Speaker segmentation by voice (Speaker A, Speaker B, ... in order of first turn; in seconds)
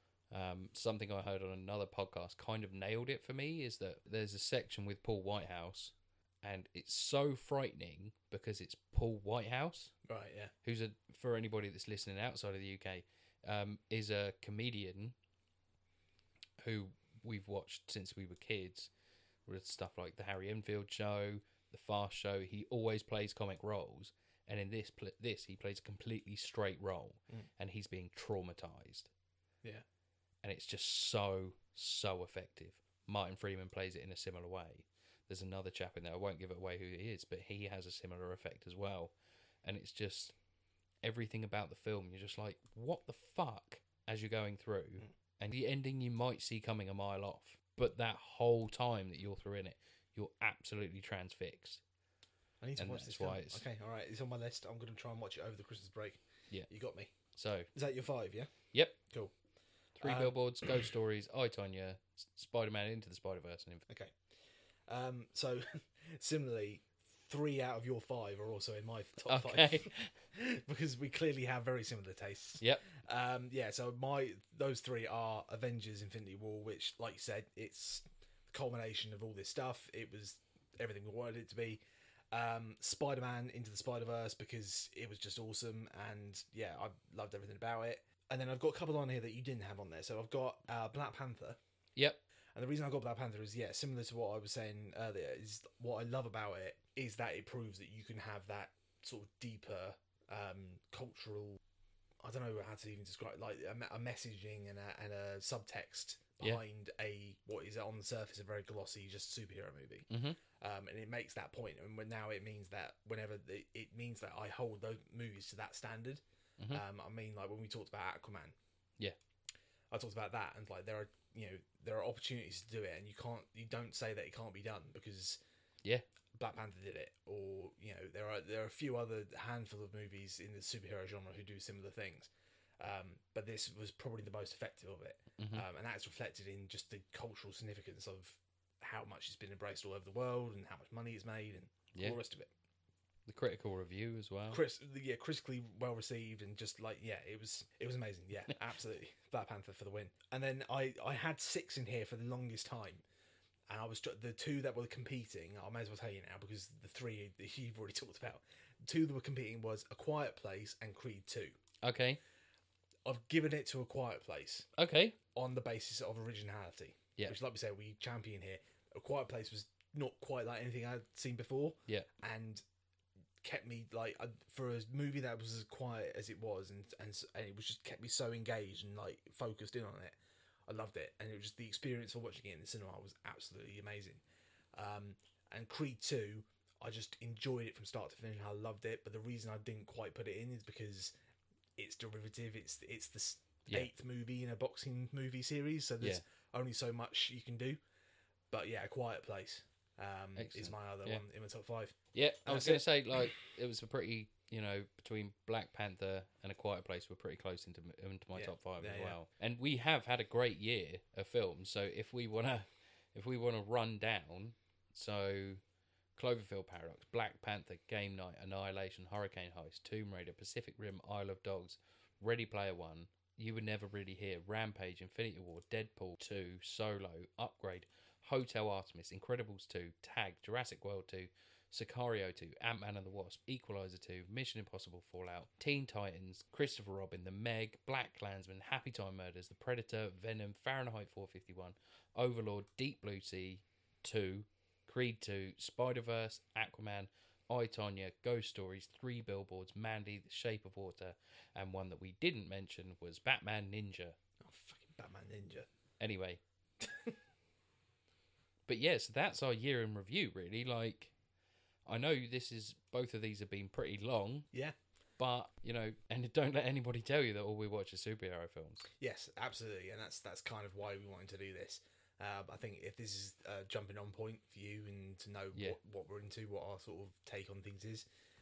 Speaker A: 0.3-9.9, 10.6-15.1, 16.6-18.9, 19.4-29.1, 30.4-40.4, 41.0-51.8, 52.8-53.6, 57.3-57.7, 60.0-63.9, 69.3-70.1, 72.6-72.8, 110.1-110.4, 135.4-135.6, 141.9-142.2, 143.2-144.6, 161.8-162.2, 164.8-165.2, 200.3-201.2, 202.1-215.6, 216.2-254.2, 256.0-256.4, 258.7-261.1, 261.9-264.5, 265.2-268.8
Speaker B: 10.1-10.5, 52.6-57.1, 57.7-58.5, 59.0-59.3, 60.0-60.7, 63.9-64.2, 64.9-81.8, 82.3-91.6, 92.5-101.6, 102.2-118.5, 119.9-125.4, 126.3-142.5, 144.5-153.0, 153.7-161.6, 163.1-164.7, 165.3-172.6, 173.4-180.1, 180.7-184.2, 184.7-191.1, 191.8-197.8, 198.5-202.8, 208.3-209.2, 254.4-255.7, 256.8-257.1, 269.0-278.1